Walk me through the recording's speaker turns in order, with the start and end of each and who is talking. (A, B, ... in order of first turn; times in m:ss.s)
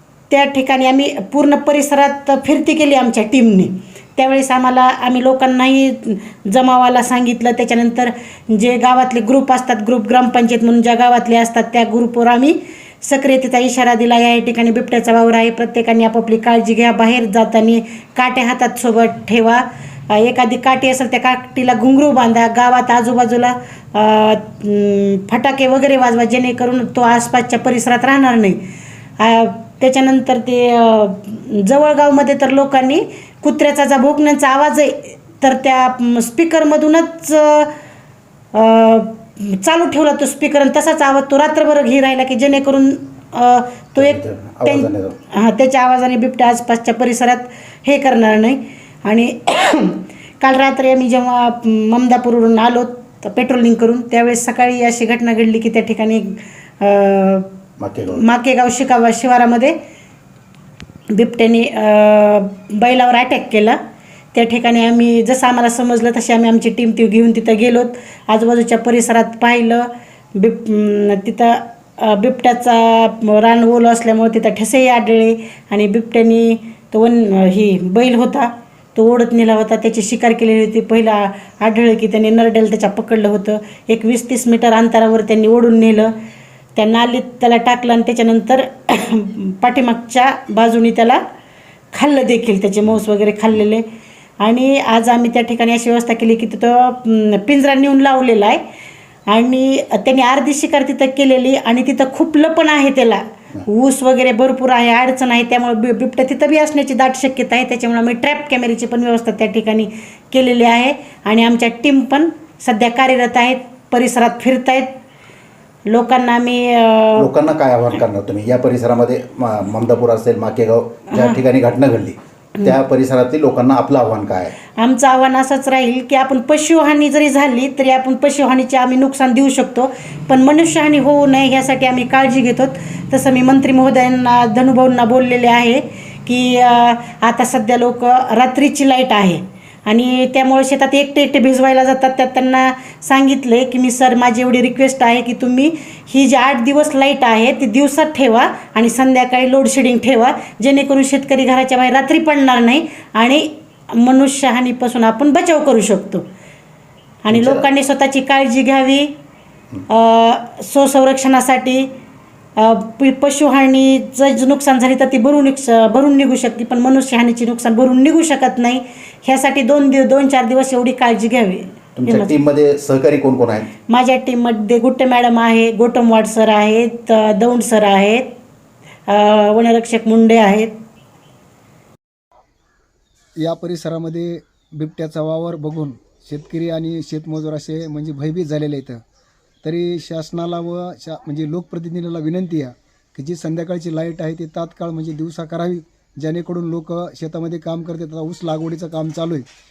0:00.3-0:28.6 A
0:29.2-0:37.8 A
0:38.5-0:57.5 A
0:44.0-0:45.2 B
0:57.8-0:58.2 B
0:58.1-0:59.8 A
1:01.1-1:03.8 A
1:04.3-1:26.1 A
1:26.8-1:31.2 A
1:31.9-1:33.8 A
1:34.4-1:38.6 A
1:39.3-1:55.0 A
1:55.9-1:57.3 A
1:57.2-2:04.6 B
2:01.1-2:01.4 A
2:04.6-2:36.3 A
2:37.3-2:39.1 A
2:37.3-2:37.7 B
2:39.9-2:41.9 A
2:42.6-2:52.3 A
2:52.0-2:53.7 B
2:53.8-2:58.3 A
2:59.1-3:00.8 A
3:03.4-3:09.0 C
3:09.6-3:19.4 C